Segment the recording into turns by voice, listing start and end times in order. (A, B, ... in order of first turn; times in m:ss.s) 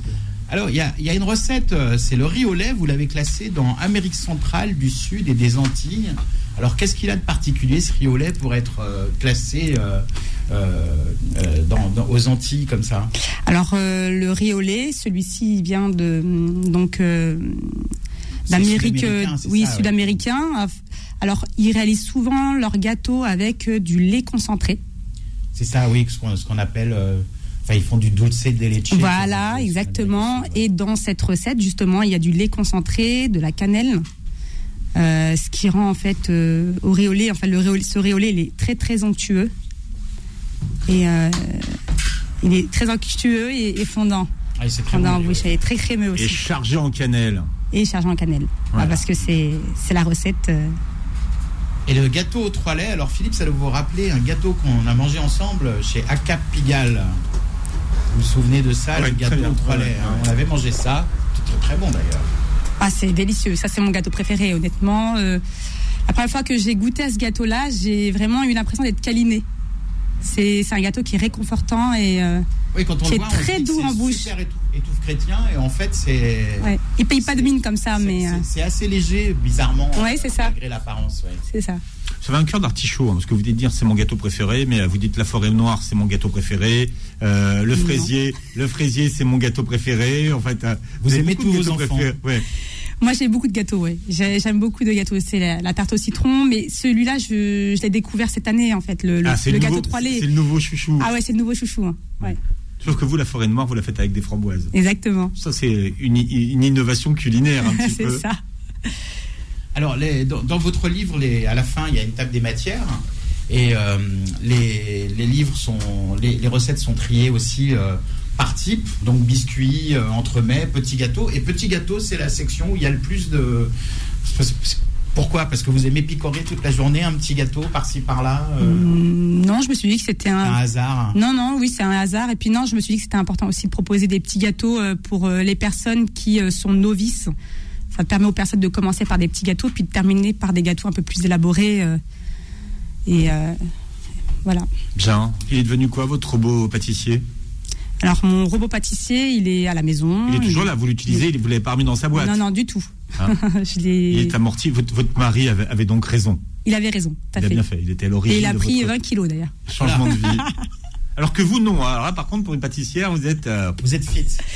0:00.5-0:13.1 A
0:13.4-0:17.9 B
0:18.5-0:20.2 A
0:18.5-0:24.8 B
0:25.5-0:30.7 A
0:28.9-0:34.0 B
0:35.0-0:39.5 B
0:40.9-0:41.8 B
0:42.4-0:44.3 B
0:44.6-0:45.6 A
0:44.9-0:46.4 B
0:46.1-0:47.5 C
0:47.7-0:50.8 B
0:48.7-0:49.0 A
0:51.8-0:57.2 A
0:58.1-1:02.3 A
0:58.9-1:00.3 C
1:02.8-1:05.4 B
1:06.1-1:09.4 B
1:10.2-1:12.4 B
1:12.7-1:21.4 A
1:13.0-1:14.3 B
1:16.6-1:18.4 B
1:20.0-1:20.5 B
1:21.5-1:21.8 B
1:22.2-1:32.4 C
1:27.7-1:28.1 B
1:31.0-1:32.1 A
1:33.0-1:40.3 B
1:39.2-1:41.1 C
1:41.0-1:42.4 B
1:42.2-1:44.7 C
1:44.7-1:45.3 B
1:45.4-1:48.2 C
1:47.6-1:49.0 B
1:49.7-2:08.9 A
2:08.6-2:10.6 B
2:10.4-2:11.2 A
2:11.1-2:17.3 B
2:17.9-2:22.0 B
2:23.0-2:23.6 B
2:25.0-2:27.2 C
2:28.0-2:31.2 B
2:30.3-2:32.4 C
2:32.1-2:34.3 B
2:34.1-2:36.4 C
2:36.6-2:37.6 B
2:37.4-2:39.0 C
2:38.3-2:40.6 B
2:39.7-2:40.5 C
2:39.8-2:40.1 A
2:41.2-2:43.8 C
2:43.8-2:44.4 A